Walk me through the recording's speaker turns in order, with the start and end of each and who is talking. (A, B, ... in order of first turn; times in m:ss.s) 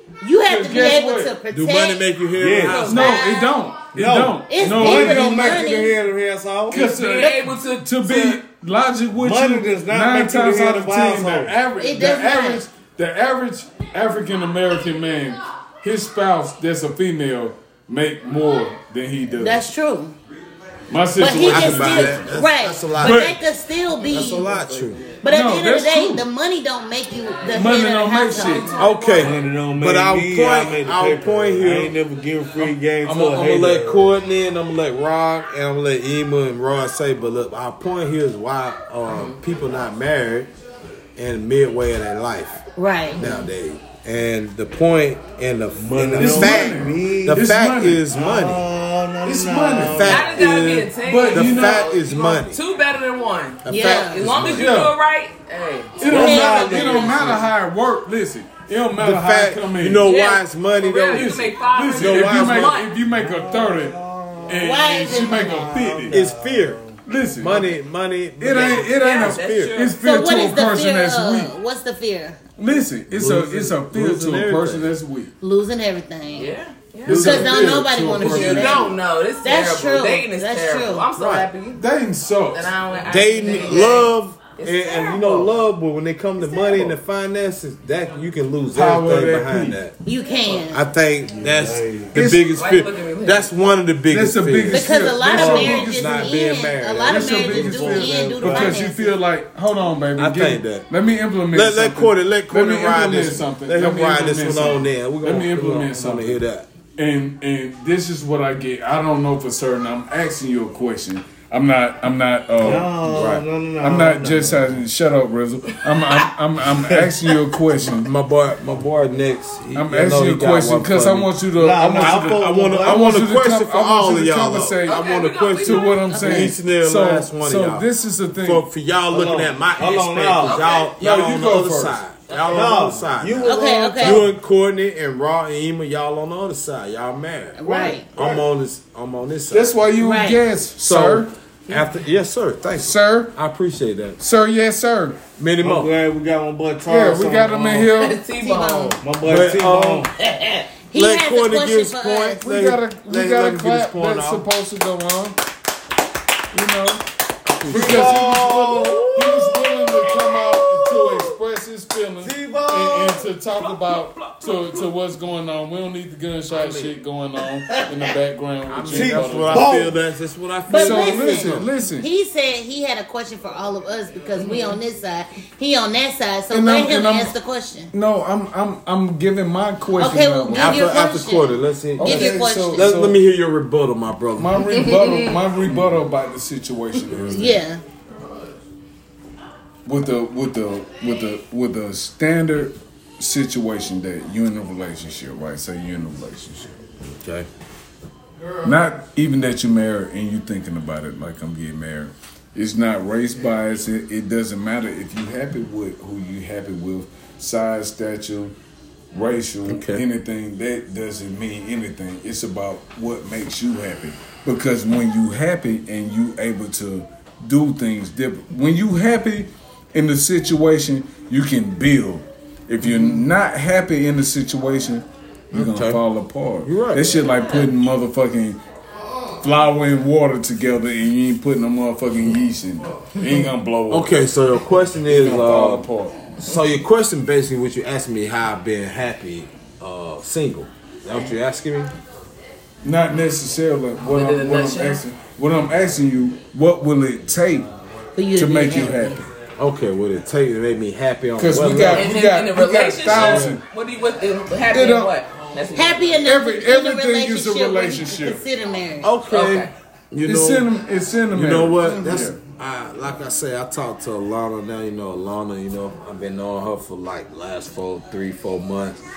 0:00.2-0:02.0 A
0:00.4-0:01.4 B
0:01.5-0:03.1 C
0:02.4-0:03.0 D
0:02.6-0:03.0 E
0:02.8-0:05.6 B
0:02.8-0:03.6 A
0:03.9-0:06.8 D
0:04.5-0:06.0 A
0:06.7-0:08.4 E
0:06.7-0:19.6 B
0:09.2-0:11.6 D
0:11.8-0:12.6 A
0:19.4-0:20.1 A
0:20.9-0:22.3 B
0:21.2-0:24.5 A
0:21.4-0:23.4 C
0:24.0-0:25.0 C
0:25.2-0:28.7 A
0:25.2-0:26.2 B
0:27.5-0:28.8 B
0:28.4-0:29.3 E
0:28.8-0:31.9 C
0:29.2-0:34.1 D
0:33.0-0:40.5 C
0:39.1-0:39.4 E
0:41.2-0:42.6 C
0:42.8-0:43.2 A
0:43.2-0:43.4 E
0:43.2-0:48.6 C
0:45.8-0:47.5 D
0:46.2-0:48.0 B
0:48.1-0:50.5 D
0:49.2-0:50.2 B
0:49.8-0:52.6 C
0:50.0-0:56.0 E
0:51.0-0:51.8 B
0:53.6-0:54.7 C
0:53.7-0:54.2 A
0:54.4-0:54.9 B
0:56.0-1:00.0 B
0:56.0-0:57.5 D
0:56.0-0:57.3 A
0:59.0-1:01.3 C
1:00.0-1:02.9 E
1:01.1-1:06.2 B
1:01.9-1:02.8 C
1:03.0-1:07.0 D
1:04.6-1:05.7 A
1:06.1-1:06.8 C
1:07.0-1:07.7 B
1:07.4-1:09.8 C
1:08.4-1:11.5 B
1:08.4-1:10.0 E
1:10.0-1:12.4 A
1:12.6-1:15.3 B
1:13.1-1:14.9 C
1:15.4-1:16.5 A
1:16.3-1:17.6 E
1:17.0-1:18.9 B
1:17.1-1:21.1 A
1:18.2-1:21.8 E
1:21.2-1:21.5 C
1:21.7-1:22.7 B
1:22.5-1:25.5 E
1:23.0-1:29.9 C
1:26.6-1:26.9 D
1:28.7-1:29.8 B
1:30.0-1:30.8 A
1:30.5-1:38.8 C
1:31.3-1:32.1 D
1:32.1-1:32.4 B
1:32.5-1:33.5 E
1:34.1-1:36.4 B
1:34.7-1:39.1 A
1:37.0-1:46.4 B
1:40.2-1:40.9 C
1:41.5-1:46.7 C
1:47.0-1:52.9 B
1:52.6-1:54.7 D
1:52.6-1:53.4 C
1:53.8-1:58.1 B
1:57.9-2:01.3 C
1:59.7-2:08.6 B
2:01.5-2:03.1 D
2:02.0-2:07.8 C
2:04.8-2:06.1 E
2:06.1-2:06.5 A
2:08.4-2:19.7 C
2:09.1-2:10.7 D
2:10.4-2:10.9 E
2:11.0-2:12.0 B
2:12.3-2:12.7 E
2:12.5-2:14.3 D
2:13.4-2:14.2 A
2:17.6-2:18.0 A
2:17.7-2:18.0 B
2:18.2-2:18.4 D
2:19.5-2:21.3 B
2:20.0-2:20.4 A
2:20.8-2:24.2 C
2:22.8-2:23.3 B
2:24.2-2:25.2 B
2:25.4-2:25.9 C
2:25.6-2:27.9 D
2:26.8-2:28.2 B
2:28.0-2:29.0 E
2:28.4-2:29.0 A
2:29.0-2:30.1 D
2:29.2-2:30.1 C
2:30.9-2:32.4 A
2:30.9-2:34.4 C
2:32.4-2:35.4 B
2:36.5-2:37.0 B
2:37.6-2:39.4 C
2:37.6-2:49.8 B
2:37.7-2:41.2 D
2:42.2-2:43.3 D
2:46.5-2:46.9 C
2:48.7-2:51.7 C
2:48.8-2:50.0 D
2:50.7-2:57.9 A
2:50.7-2:52.1 B
2:54.4-2:54.8 E
2:56.5-2:57.3 B
2:57.9-3:00.9 B
3:00.0-3:02.9 A
3:00.5-3:04.7 C
3:02.0-3:03.2 B
3:04.4-3:07.6 B
3:04.7-3:05.4 E
3:07.3-3:07.8 A
3:09.8-3:16.8 B
3:17.0-3:17.5 C
3:18.6-3:28.6 B
3:29.1-3:48.6 B
3:29.7-3:30.0 C
3:42.8-3:43.2 C
3:45.5-3:46.0 C
3:46.6-3:47.2 C
3:47.2-3:47.7 E
3:49.4-3:54.3 B
3:53.9-3:55.9 C
3:55.0-3:56.3 B
3:56.4-4:01.9 C
4:02.8-4:07.7 B
4:04.0-4:05.0 E
4:08.2-4:09.2 A
4:08.4-4:09.3 B
4:09.6-4:12.1 C
4:11.4-4:13.6 B
4:11.9-4:16.2 E
4:13.1-4:13.6 C
4:14.7-4:15.1 B
4:15.7-4:19.1 A
4:16.2-4:18.4 B
4:19.0-4:20.7 C
4:19.3-4:19.7 E
4:20.2-4:22.4 B
4:21.3-4:29.0 C
4:21.8-4:22.2 A